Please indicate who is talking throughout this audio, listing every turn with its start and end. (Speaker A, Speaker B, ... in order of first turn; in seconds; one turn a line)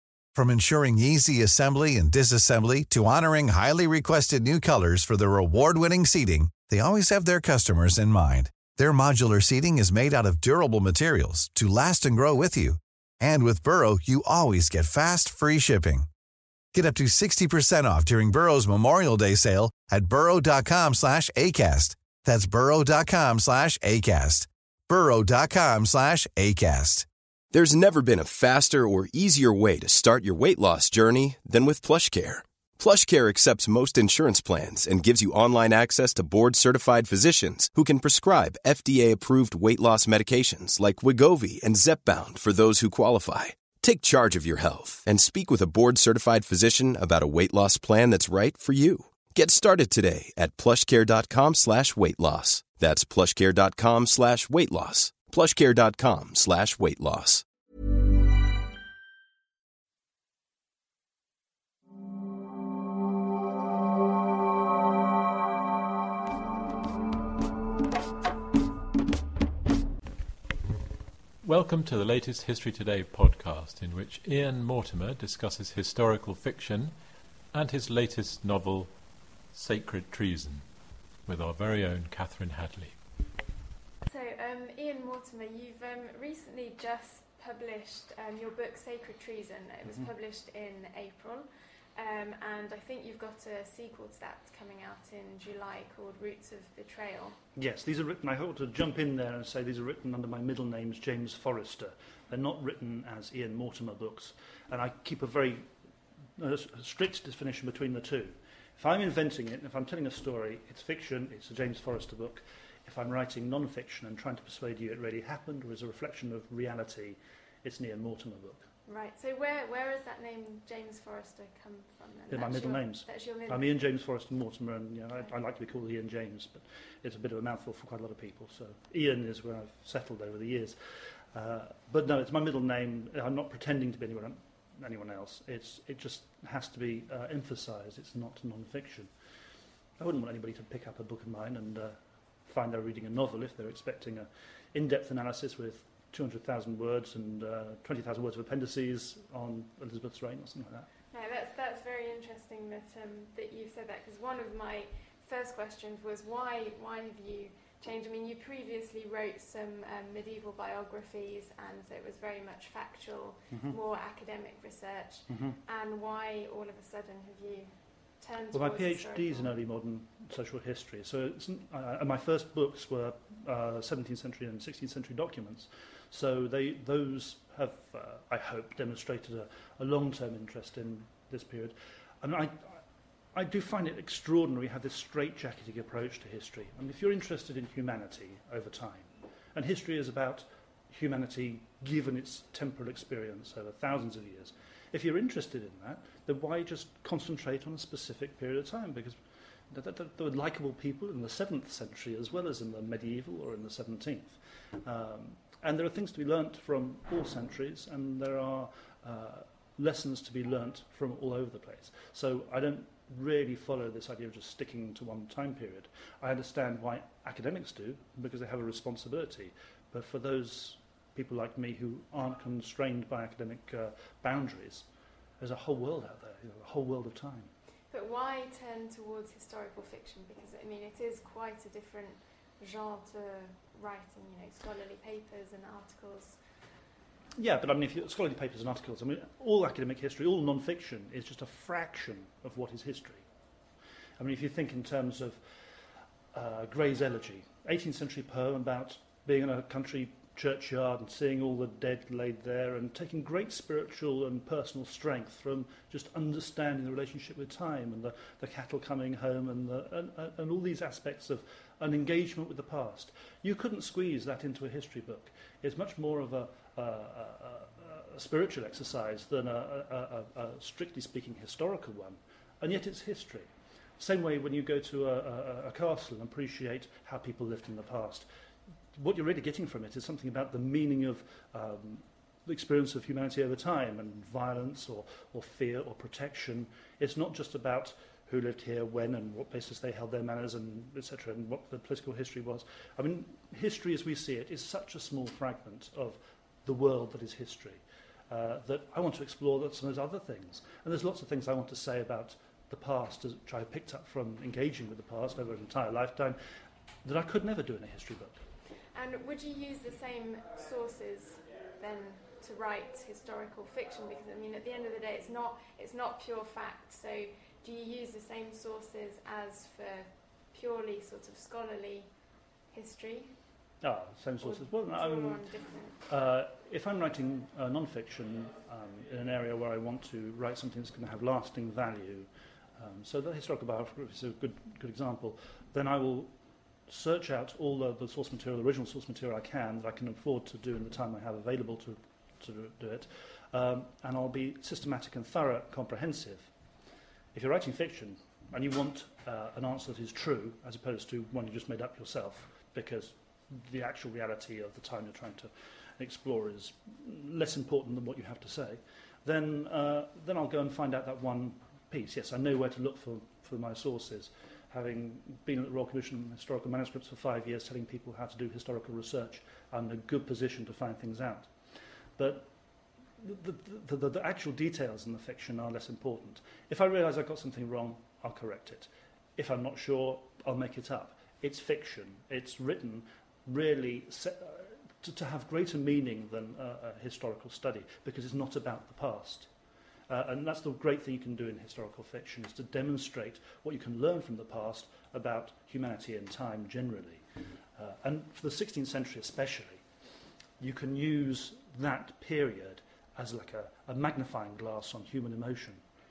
Speaker A: 0.3-16.1
Speaker A: 16.7-27.1
Speaker B: 27.5-57.4
Speaker C: 71.4-77.0
Speaker C: 77.5-78.9
Speaker C: 79.5-80.7
Speaker C: 81.3-83.0
Speaker D: 84.0-97.4
Speaker E: 97.6-105.6
Speaker E: 106.4-118.7
Speaker D: 118.9-123.8
Speaker E: 122.3-130.8
Speaker E: 131.3-139.1
Speaker E: 140.0-142.0
Speaker E: 142.5-150.9
Speaker D: 151.1-169.6
Speaker E: 163.5-163.8
Speaker E: 165.3-165.6
Speaker E: 168.5-182.7
Speaker E: 183.3-199.2
Speaker E: 199.7-224.9
Speaker E: 225.4-227.5
Speaker D: 227.9-236.4
Speaker E: 237.4-243.2
Speaker E: 244.2-245.4
Speaker E: 246.3-273.5
Speaker E: 274.0-278.3
Speaker E: 279.0-306.4
Speaker E: 307.0-308.4
Speaker D: 308.9-322.1
Speaker D: 322.7-323.4
Speaker E: 323.8-325.4
Speaker D: 324.4-326.0
Speaker E: 326.1-336.3
Speaker E: 336.9-346.5
Speaker E: 347.3-371.5
Speaker E: 372.2-372.5
Speaker E: 373.2-389.5
Speaker E: 390.1-397.2
Speaker E: 397.8-399.8
Speaker E: 400.6-405.8